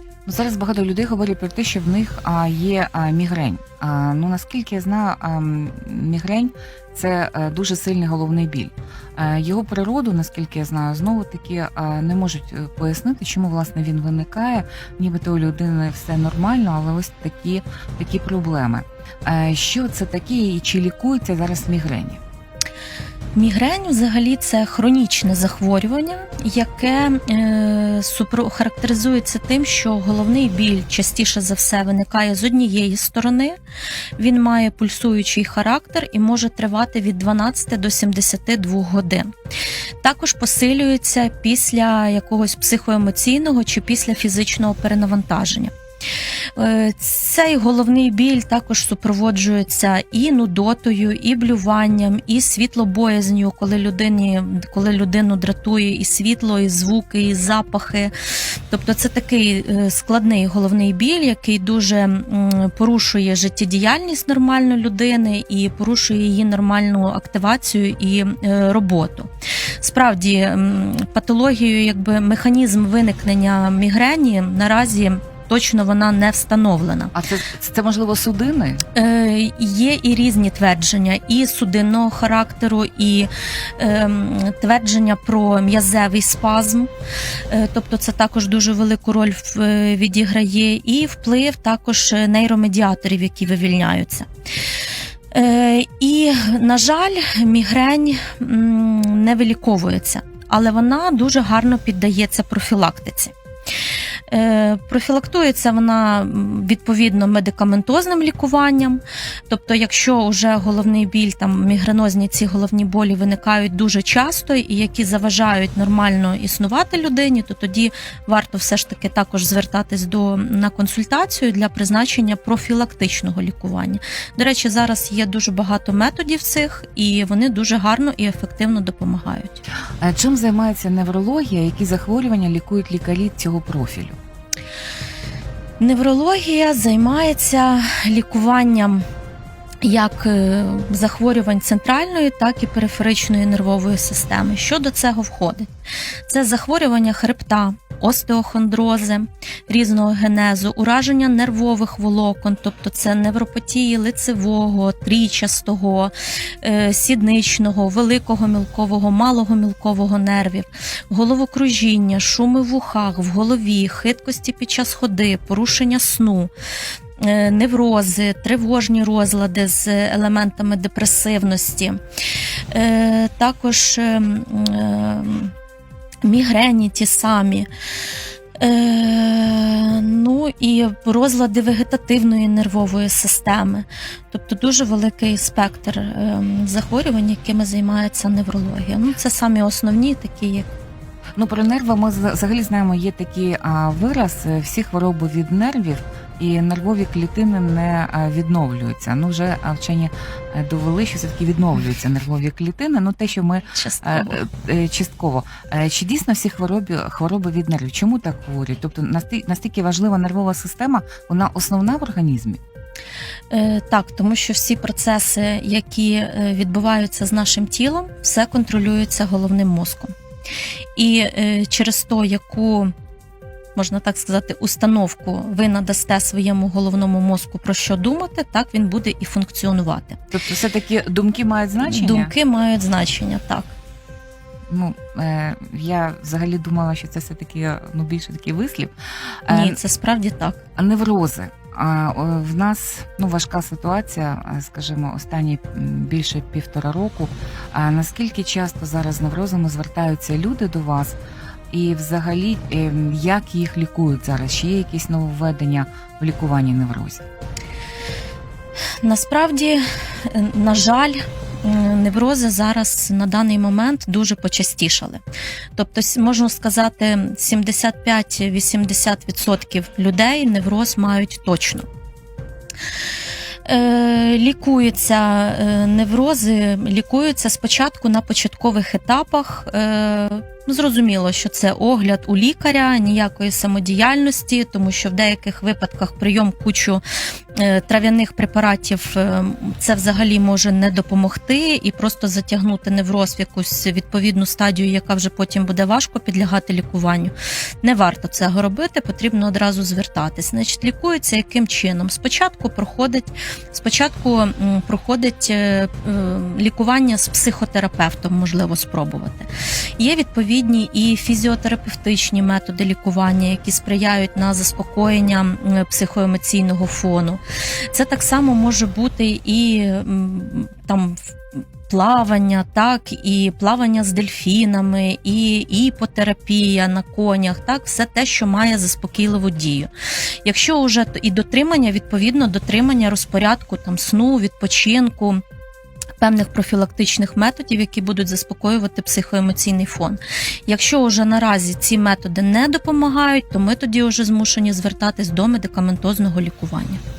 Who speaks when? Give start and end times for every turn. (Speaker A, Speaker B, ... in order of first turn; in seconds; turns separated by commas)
Speaker A: 0.3-22.2, Speaker B: 23.4-33.6, Speaker B: 34.2-39.3, Speaker B: 40.0-45.7, Speaker B: 46.6-58.1, Speaker B: 58.7-69.3, Speaker B: 69.8-77.1, Speaker A: 77.1-78.9, Speaker B: 79.0-86.9, Speaker B: 87.5-94.3, Speaker B: 95.3-103.3, Speaker B: 104.3-129.6, Speaker A: 130.0-134.2, Speaker B: 135.8-139.1, Speaker B: 139.8-145.7, Speaker B: 146.3-166.5, Speaker B: 167.2-172.0, Speaker B: 172.7-175.5, Speaker B: 176.2-177.7, Speaker B: 178.6-190.7, Speaker A: 191.4-212.6, Speaker B: 203.7-204.4, Speaker B: 213.5-220.1, Speaker B: 221.0-222.9, Speaker B: 223.8-230.2, Speaker A: 230.3-232.3, Speaker B: 231.8-233.8, Speaker A: 234.7-239.8, Speaker B: 239.5-240.6, Speaker A: 240.8-251.2, Speaker A: 251.7-257.2, Speaker B: 259.0-265.2, Speaker B: 265.8-271.9, Speaker B: 273.7-287.0, Speaker B: 287.6-317.4, Speaker B: 317.9-329.9, Speaker B: 330.4-335.4, Speaker B: 336.2-347.0